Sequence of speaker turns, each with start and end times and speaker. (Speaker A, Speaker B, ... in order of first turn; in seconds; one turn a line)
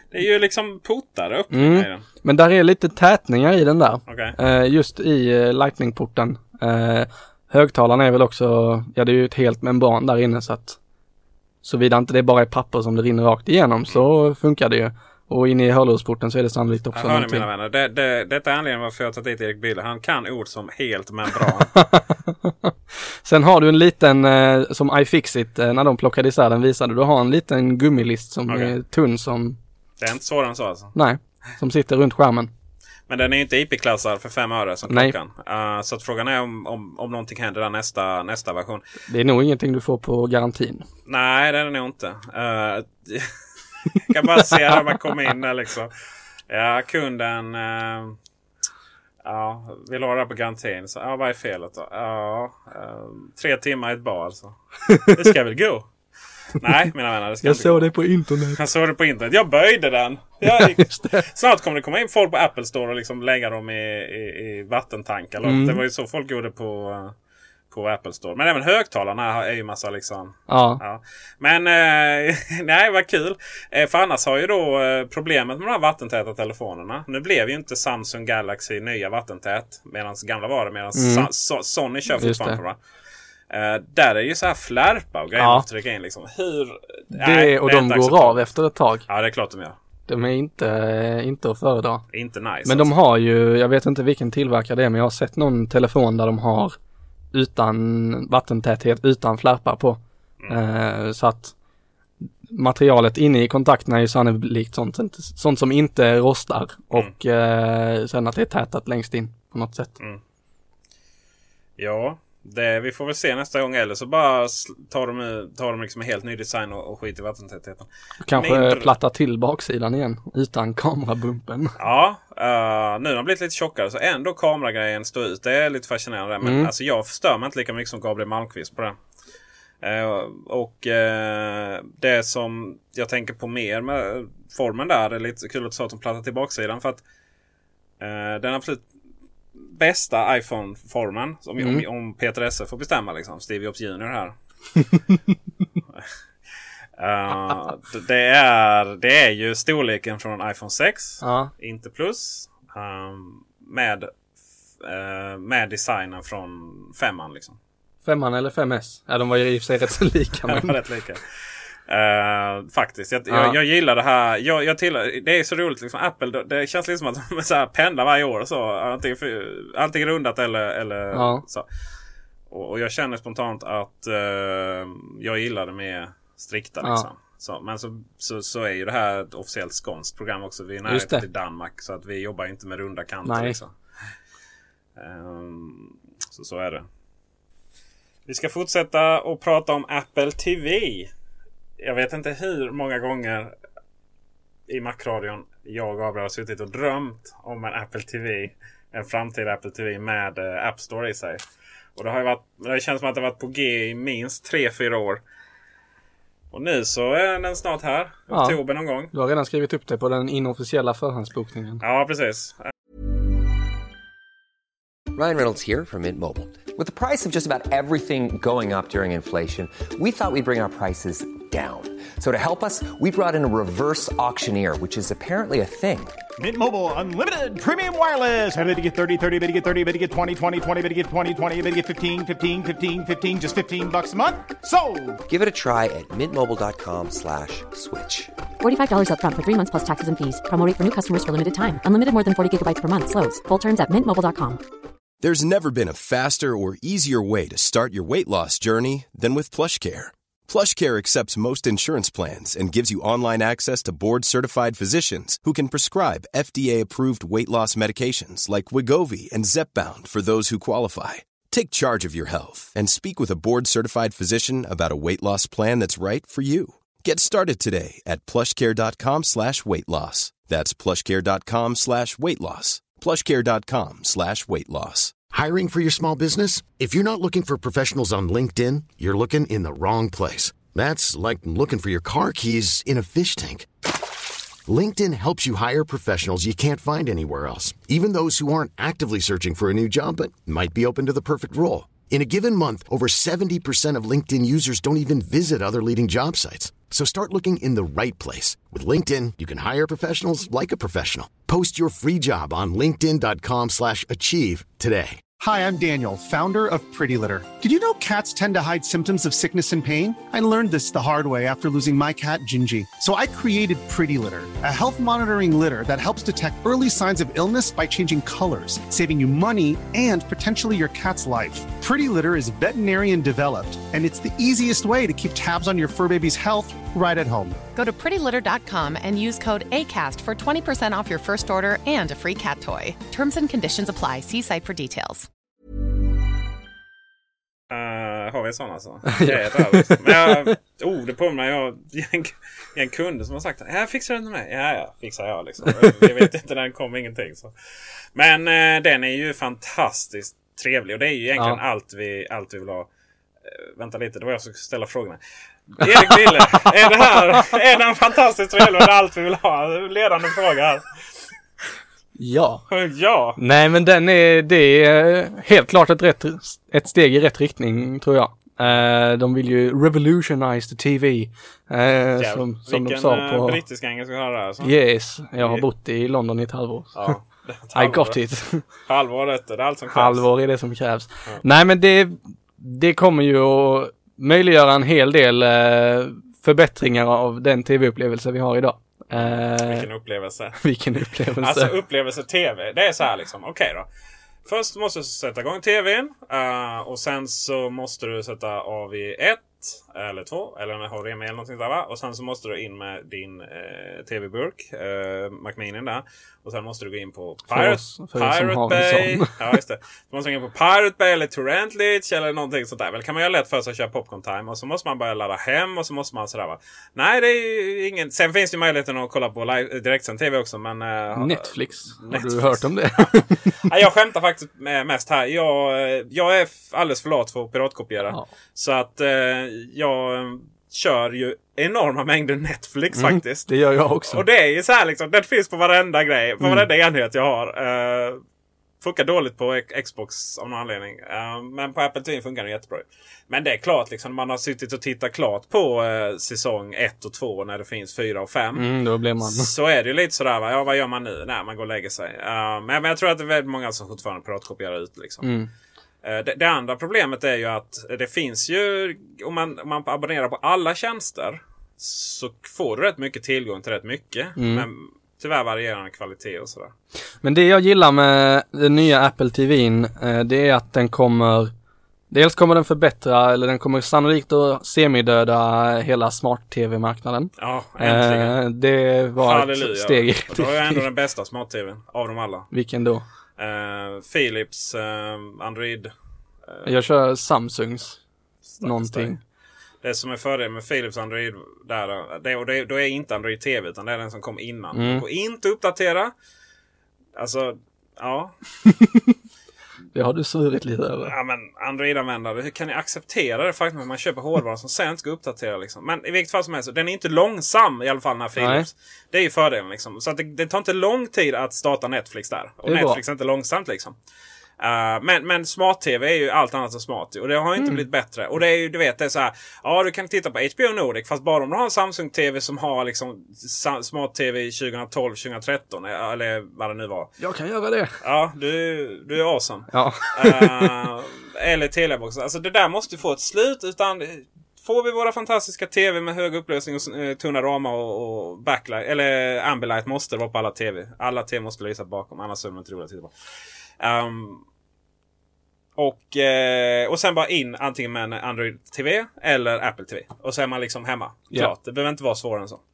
Speaker A: 0.1-2.0
Speaker B: 1.5-10.8
Speaker A: 4.0-4.3
Speaker B: 11.6-17.4
Speaker A: 16.9-21.8
Speaker B: 21.7-22.7
Speaker B: 23.2-29.6
Speaker A: 28.5-28.7
Speaker A: 30.0-30.9
Speaker B: 30.9-32.5
Speaker A: 33.1-38.8
Speaker B: 34.9-35.1
Speaker B: 39.1-40.9
Speaker A: 41.1-43.3
Speaker A: 43.9-45.9
Speaker A: 46.5-48.2
Speaker A: 49.2-55.9
Speaker B: 54.9-55.1
Speaker A: 56.6-57.9
Speaker B: 57.4-58.6
Speaker A: 58.5-67.1
Speaker B: 60.5-61.2
Speaker B: 65.4-65.8
Speaker A: 67.7-82.8
Speaker B: 70.5-70.8
Speaker B: 81.0-81.3
Speaker B: 82.2-82.6
Speaker A: 83.5-88.5
Speaker B: 85.4-85.6
Speaker B: 87.1-89.0
Speaker A: 89.1-89.8
Speaker B: 90.1-92.0
Speaker A: 92.1-92.9
Speaker B: 92.7-96.8
Speaker B: 97.3-101.5
Speaker B: 102.5-109.9
Speaker A: 111.8-118.9
Speaker B: 118.2-121.7
Speaker A: 121.8-129.0
Speaker B: 126.4-126.7
Speaker A: 129.8-137.0
Speaker A: 138.0-138.8
Speaker A: 139.6-144.3
Speaker B: 141.6-141.8
Speaker A: 147.0-154.1
Speaker B: 151.2-151.5
Speaker A: 154.8-157.6
Speaker B: 158.0-160.7
Speaker A: 160.5-161.2
Speaker A: 161.9-171.7
Speaker B: 163.3-163.6
Speaker B: 171.1-171.4
Speaker A: 172.5-183.7
Speaker B: 180.9-181.2
Speaker B: 183.2-183.6
Speaker A: 185.0-186.8
Speaker A: 188.2-191.1
Speaker A: 191.8-193.5
Speaker A: 194.7-201.4
Speaker A: 201.9-205.2
Speaker A: 206.5-209.1
Speaker B: 208.3-208.6
Speaker B: 209.1-211.8
Speaker A: 211.8-212.7
Speaker C: 215.1-226.1
Speaker D: 226.4-235.2
Speaker C: 235.3-238.3
Speaker E: 238.6-244.6
Speaker F: 245.2-275.1
Speaker G: 275.3-283.7
Speaker G: 284.7-305.2
Speaker H: 305.4-327.6
Speaker I: 327.8-335.3
Speaker A: 337.7-347.5
Speaker B: 339.1-340.5
Speaker A: 348.1-352.9
Speaker A: 353.4-355.2
Speaker A: 355.7-360.8
Speaker B: 355.8-356.6
Speaker B: 362.2-362.6
Speaker A: 362.7-363.4
Speaker B: 363.4-373.6
Speaker A: 372.2-374.7
Speaker B: 374.6-377.2
Speaker A: 375.4-375.6
Speaker A: 376.9-378.2
Speaker B: 377.7-378.6
Speaker A: 378.9-380.2
Speaker B: 379.9-389.9
Speaker A: 389.1-390.6
Speaker B: 390.6-391.7
Speaker A: 391.4-393.9
Speaker A: 394.4-433.5
Speaker B: 407.5-409.3
Speaker B: 421.1-423.6
Speaker B: 432.9-434.2
Speaker A: 434.0-438.2
Speaker A: 438.8-448.7
Speaker B: 448.6-449.5
Speaker A: 449.2-455.3
Speaker B: 455.2-455.5
Speaker A: 456.0-466.7
Speaker B: 464.4-464.6
Speaker B: 467.2-471.5
Speaker B: 472.1-480.8
Speaker A: 477.4-478.4
Speaker A: 479.2-482.5
Speaker B: 482.5-483.0
Speaker A: 483.4-485.9
Speaker B: 486.6-488.0
Speaker A: 488.5-489.2
Speaker B: 488.6-489.2
Speaker A: 489.8-496.1
Speaker B: 494.7-495.0
Speaker A: 497.1-498.4
Speaker B: 498.7-499.1
Speaker B: 499.9-501.1
Speaker A: 501.0-514.0
Speaker B: 508.4-508.6
Speaker B: 512.6-513.0
Speaker A: 514.6-527.1
Speaker B: 527.2-528.0
Speaker A: 528.0-543.1
Speaker B: 529.7-530.7
Speaker A: 543.8-544.4
Speaker A: 545.8-552.6